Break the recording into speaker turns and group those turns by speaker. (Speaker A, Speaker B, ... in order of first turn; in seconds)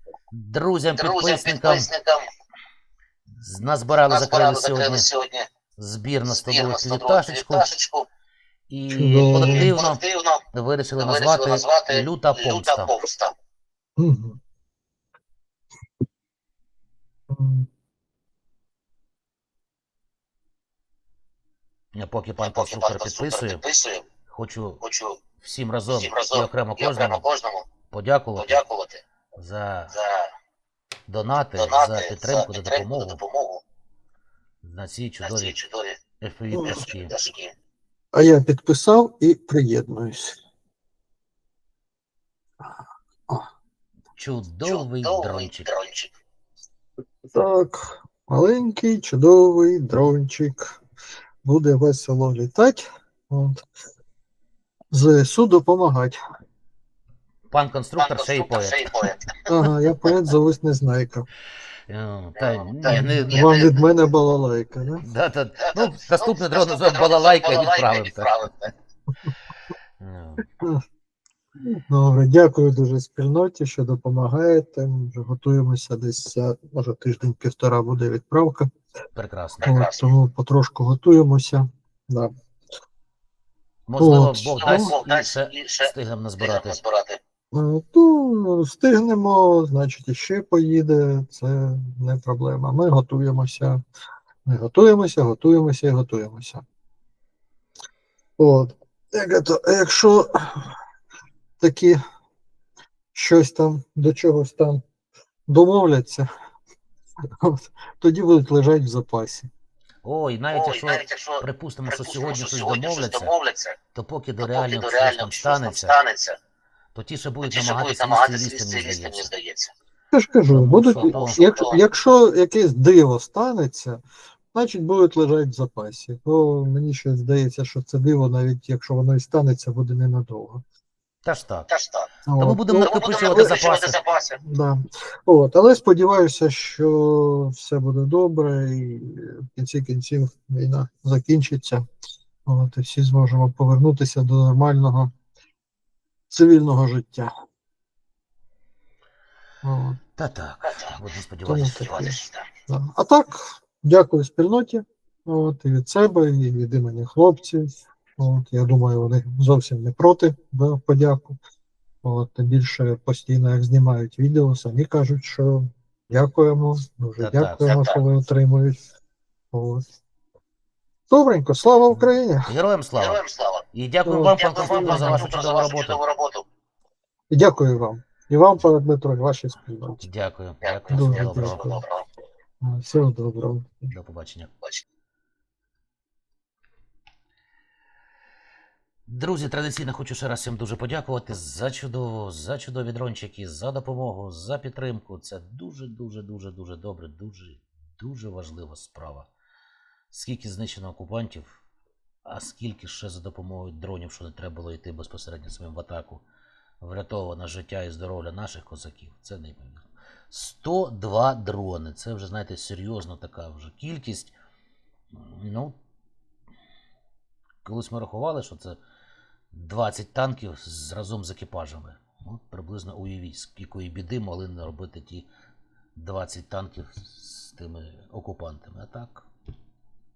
Speaker A: 0.3-1.9, 3.4-5.1, 5.8-7.7, 8.7-10.0, 10.5-12.9, 21.9-23.6, 24.3-24.8, 25.4-27.2, 27.9-28.6, 29.4-29.9, 31.1-33.2, 34.6-35.6, 36.2-37.1, 44.2-45.7, 57.5-59.1, 61.9-63.5, 65.0-68.4, 70.0-70.5, 79.2-79.7, 83.9-86.8, 110.0-113.3, 113.9-116.0, 116.9-119.3, 120.5-121.4, 131.2-131.7, 132.4-134.0, 150.2-152.1, 167.2-167.8, 172.0-173.2, 173.7-176.0, 180.0-181.7, 183.9-184.5, 189.1-199.3, 200.1-201.6, 202.3-206.2, 206.8-214.3, 215.1-215.8, 217.7-218.8, 219.5-225.3, 226.0-229.2
Speaker B: 1.0-2.3, 4.1-5.5, 6.3-8.1, 9.3-10.4, 11.0-13.3, 22.4-24.1, 24.8-25.2, 25.9-27.7, 28.4-29.0, 29.9-30.3, 31.5-33.6, 35.2-36.0, 36.6-37.5, 44.6-46.1, 58.0-59.4, 62.4-64.0, 65.7-68.7, 79.6-80.1, 84.6-87.2, 110.5-113.8, 114.4-116.4, 117.4-119.7, 121.0-121.8, 131.7-132.1, 132.8-134.4, 150.7-150.9, 151.7-152.5, 167.7-168.0, 173.0-173.6, 174.3-176.4, 180.6-182.1
Speaker C: 8.9-9.7, 14.0-14.4, 17.3-17.7, 36.5-36.8, 38.1-40.4, 47.3-50.8, 51.4-53.6, 54.9-56.2, 59.5-61.3, 62.9-65.0, 71.7-78.7, 79.7-82.3, 84.0-84.9, 87.5-93.8, 94.5-96.6, 98.4-100.8, 101.6-102.0, 103.1-104.8, 105.5-106.3, 107.4-109.5, 120.1-124.0, 124.5-130.6, 132.3-133.6, 134.4-141.8, 142.5-145.1, 146.3-147.3, 149.6-150.0, 151.4-161.4, 162.0-168.8, 169.5-169.8, 171.1-172.5, 174.1-175.3, 177.3-180.0, 180.9-181.8, 182.6-183.9